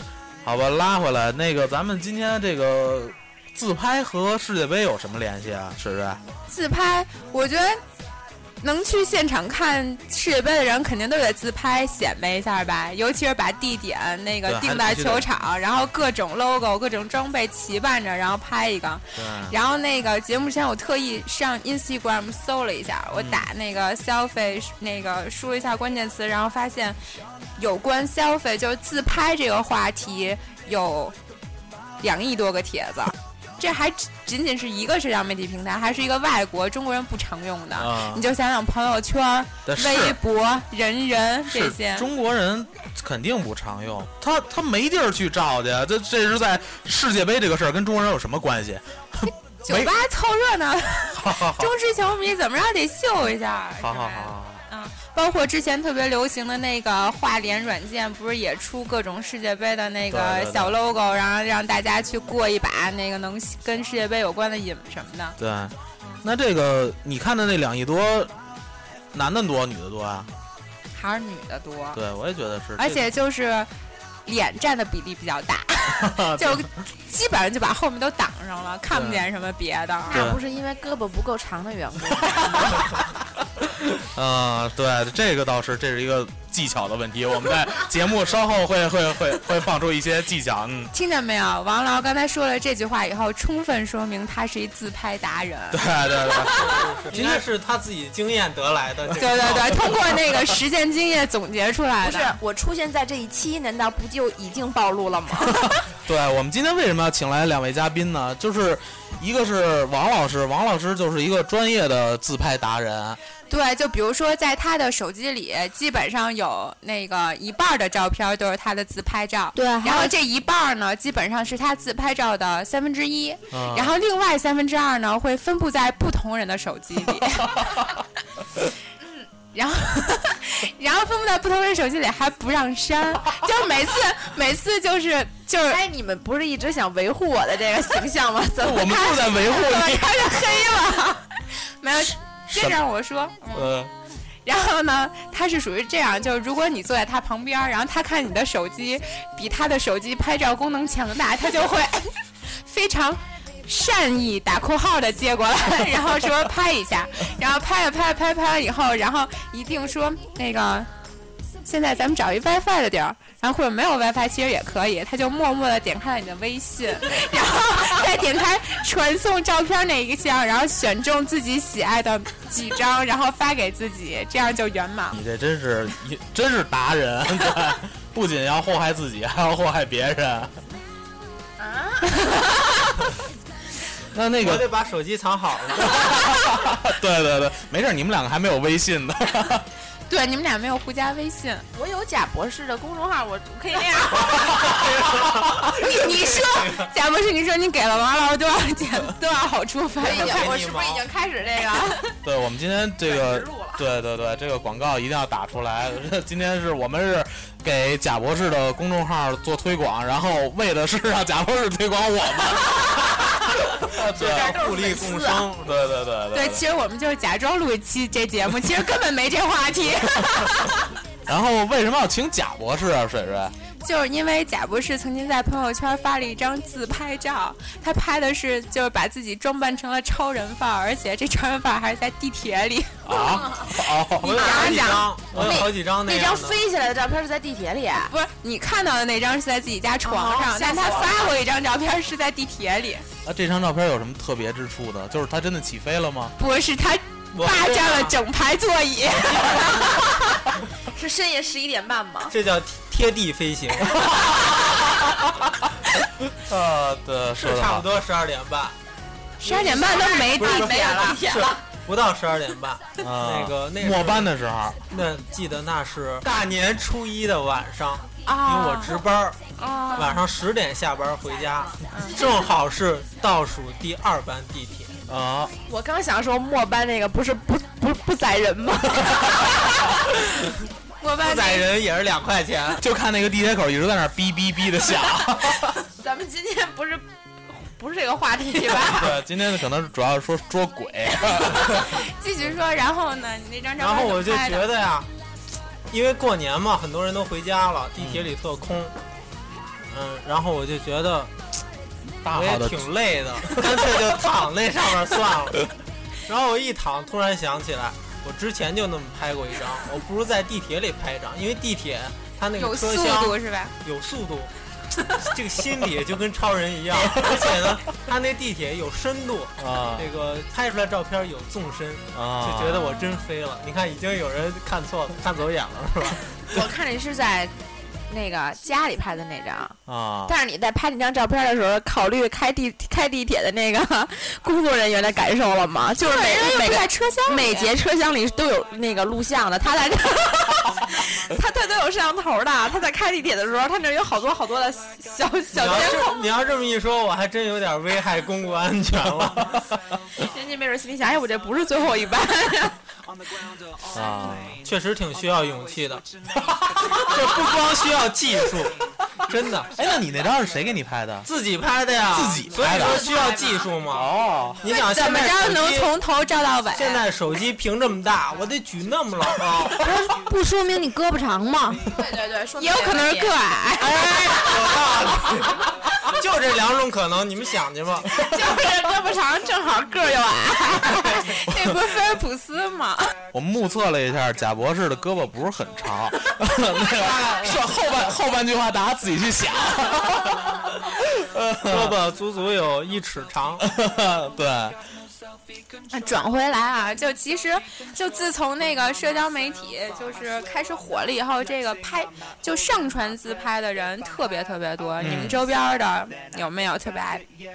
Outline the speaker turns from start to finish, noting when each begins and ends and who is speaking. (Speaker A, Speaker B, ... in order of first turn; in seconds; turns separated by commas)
Speaker A: 0.4-6.2, Speaker B: 6.5-7.8, Speaker B: 8.6-27.0, Speaker A: 14.4-15.3, Speaker A: 19.1-19.6, Speaker A: 23.1-23.5, Speaker B: 27.6-31.1, Speaker B: 32.0-42.1, Speaker A: 37.8-38.2, Speaker A: 39.6-40.2, Speaker A: 41.5-49.9, Speaker B: 49.6-65.4, Speaker A: 51.1-51.7, Speaker A: 53.8-54.6, Speaker A: 60.1-60.8, Speaker A: 65.4-68.3, Speaker A: 69.1-70.3, Speaker B: 70.9-72.0, Speaker A: 71.9-73.1, Speaker B: 72.8-73.7, Speaker B: 74.2-80.2, Speaker A: 76.0-76.7, Speaker A: 78.9-79.3, Speaker C: 80.0-82.8, Speaker A: 80.1-80.4, Speaker A: 84.0-90.9, Speaker B: 90.9-95.9, Speaker A: 95.7-97.4, Speaker D: 96.5-100.0, Speaker B: 99.2-102.4, Speaker C: 102.0-105.6, Speaker A: 105.5-113.2, Speaker B: 113.5-127.8, Speaker E: 119.5-120.1, Speaker A: 123.5-124.0, Speaker B: 129.5-135.8, Speaker C: 135.7-139.3, Speaker A: 138.6-140.4, Speaker B: 139.4-143.7, Speaker A: 142.5-142.8, Speaker A: 143.5-143.9, Speaker B: 144.4-160.9, Speaker B: 161.6-175.2, Speaker A: 175.1-180.6, Speaker C: 181.6-182.4, Speaker A: 184.1-184.7, Speaker D: 184.4-186.2, Speaker A: 185.8-189.7, Speaker B: 190.1-191.6, Speaker C: 191.7-194.8, Speaker D: 194.7-196.9, Speaker B: 195.8-200.5, Speaker C: 200.0-202.1, Speaker D: 200.1-201.0, Speaker A: 202.2-214.6, Speaker C: 203.0-203.8, Speaker D: 213.9-215.9, Speaker B: 214.5-215.4, Speaker A: 215.6-216.6, Speaker B: 216.3-220.8, Speaker A: 220.2-220.7, Speaker A: 221.2-223.5, Speaker B: 223.8-235.1, Speaker A: 233.0-235.7, Speaker D: 234.2-236.6, Speaker C: 234.4-238.1, Speaker B: 238.1-243.0, Speaker C: 240.0-241.3, Speaker A: 243.2-246.3, Speaker B: 246.4-250.1, Speaker D: 247.3-248.1, Speaker D: 249.3-249.6, Speaker C: 250.9-252.3, Speaker D: 252.3-254.0, Speaker A: 253.8-255.5, Speaker A: 256.3-257.9, Speaker D: 257.4-258.8, Speaker B: 259.4-261.2, Speaker C: 259.4-261.6, Speaker D: 260.4-264.3, Speaker A: 263.0-264.8, Speaker D: 264.9-269.4, Speaker C: 268.3-268.9, Speaker B: 268.3-268.9, Speaker B: 269.6-270.2, Speaker D: 269.9-274.9, Speaker B: 271.9-272.2, Speaker A: 275.1-275.5, Speaker C: 275.7-279.8, Speaker C: 281.1-281.6, Speaker D: 281.2-282.8, Speaker A: 282.8-285.8, Speaker C: 285.9-289.2, Speaker A: 288.9-292.0, Speaker B: 291.7-294.6, Speaker D: 293.8-295.1, Speaker D: 295.9-298.9, Speaker A: 298.0-298.3, Speaker D: 299.9-301.3, Speaker A: 302.2-302.9, Speaker D: 302.3-305.7, Speaker A: 303.4-304.0, Speaker D: 306.3-326.4, Speaker B: 312.6-313.7, Speaker A: 317.0-317.7, Speaker A: 319.6-320.1, Speaker A: 322.1-322.9, Speaker C: 326.5-327.5, Speaker C: 328.1-346.2, Speaker A: 329.9-330.4, Speaker B: 336.0-337.7, Speaker D: 345.5-349.5, Speaker A: 349.3-349.8, Speaker C: 350.2-352.8, Speaker A: 353.9-354.6, Speaker D: 354.6-356.0, Speaker A: 356.4-357.1, Speaker D: 356.9-359.7, Speaker A: 359.7-361.3, Speaker D: 361.2-364.1, Speaker A: 362.1-363.1, Speaker C: 362.7-363.7, Speaker A: 363.9-364.6, Speaker D: 364.6-365.9, Speaker B: 364.7-367.0, Speaker D: 366.7-369.8, Speaker E: 369.8-371.9, Speaker C: 371.9-373.4, Speaker B: 372.6-373.9, Speaker D: 373.8-375.6, Speaker D: 376.1-378.1, Speaker C: 378.1-381.2, Speaker B: 381.2-383.1, Speaker A: 381.5-381.8, Speaker A: 383.3-392.0, Speaker D: 391.7-393.6, Speaker A: 393.6-394.8, Speaker B: 395.9-407.2, Speaker A: 405.0-405.4